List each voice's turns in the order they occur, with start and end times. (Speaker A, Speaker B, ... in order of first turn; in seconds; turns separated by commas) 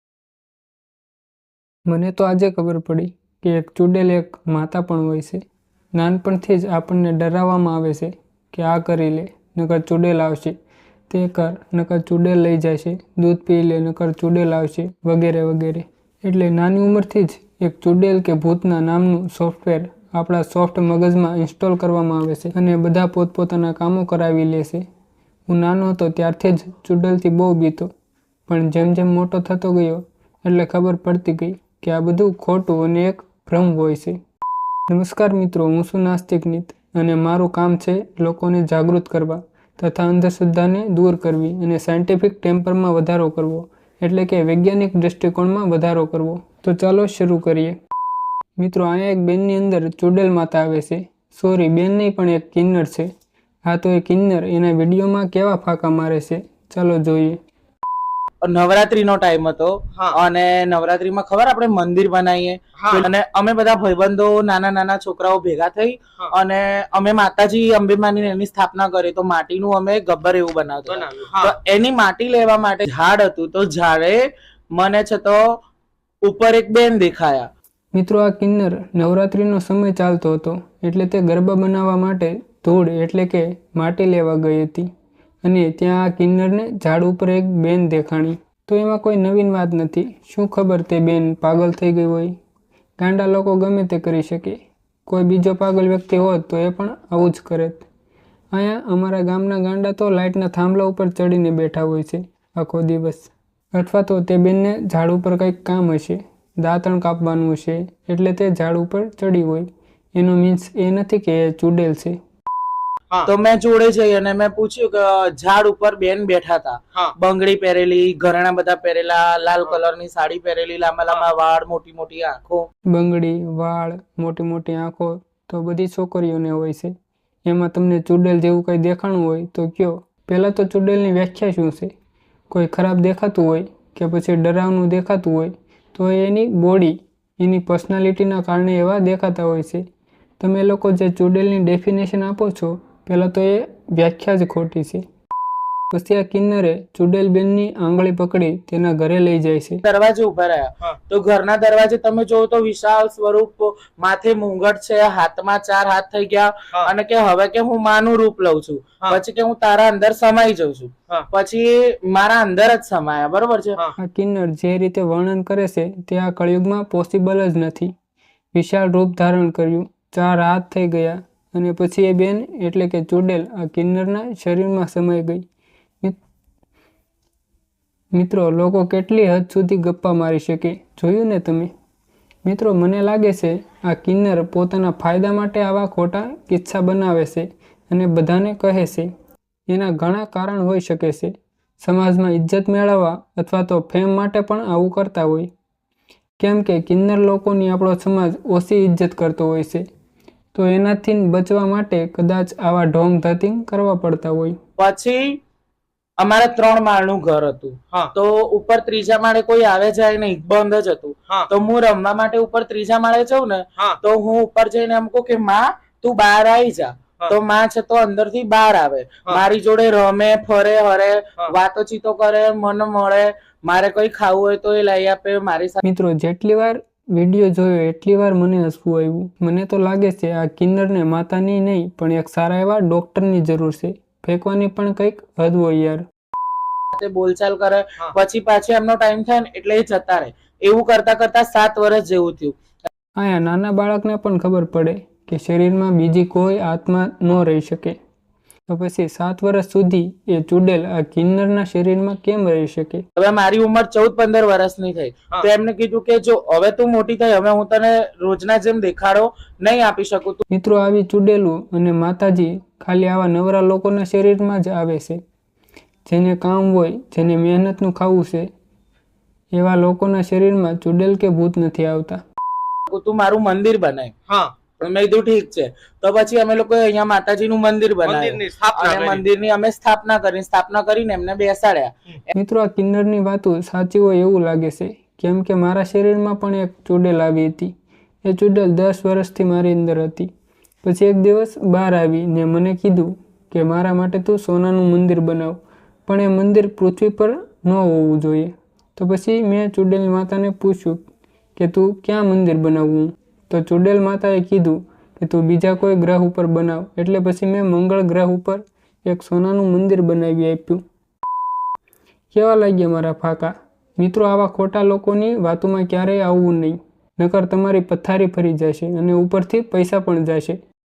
Speaker A: 1.9-5.4, Speaker A: 5.9-10.5, Speaker A: 11.1-24.8, Speaker A: 25.5-27.9, Speaker A: 28.5-34.2, Speaker A: 34.9-47.8, Speaker A: 48.6-53.1, Speaker A: 53.6-57.4, Speaker B: 58.4-75.4, Speaker C: 62.8-63.1, Speaker C: 70.9-71.5, Speaker B: 76.2-77.5, Speaker A: 77.9-84.9, Speaker A: 85.4-92.3, Speaker A: 93.0-97.9, Speaker A: 98.5-112.2, Speaker B: 113.2-122.7, Speaker A: 122.9-126.9, Speaker A: 127.4-131.9, Speaker A: 132.5-139.8, Speaker A: 140.4-145.0, Speaker A: 145.9-149.8, Speaker B: 149.8-163.8, Speaker A: 164.0-167.9, Speaker A: 168.5-175.4, Speaker A: 178.1-181.7, Speaker A: 182.4-189.1, Speaker A: 189.7-195.5, Speaker A: 196.4-199.8, Speaker A: 200.5-204.6, Speaker B: 204.8-205.4, Speaker B: 206.2-225.8, Speaker A: 225.8-236.0, Speaker B: 236.9-242.6, Speaker A: 243.2-247.9, Speaker A: 248.7-253.0, Speaker B: 253.2-260.4, Speaker A: 260.5-265.2, Speaker A: 266.1-268.5, Speaker A: 269.5-272.2, Speaker B: 272.9-274.1, Speaker C: 274.3-274.5, Speaker B: 274.8-282.3, Speaker C: 278.0-279.2, Speaker A: 282.3-290.3, Speaker A: 290.8-310.8, Speaker A: 312.3-320.6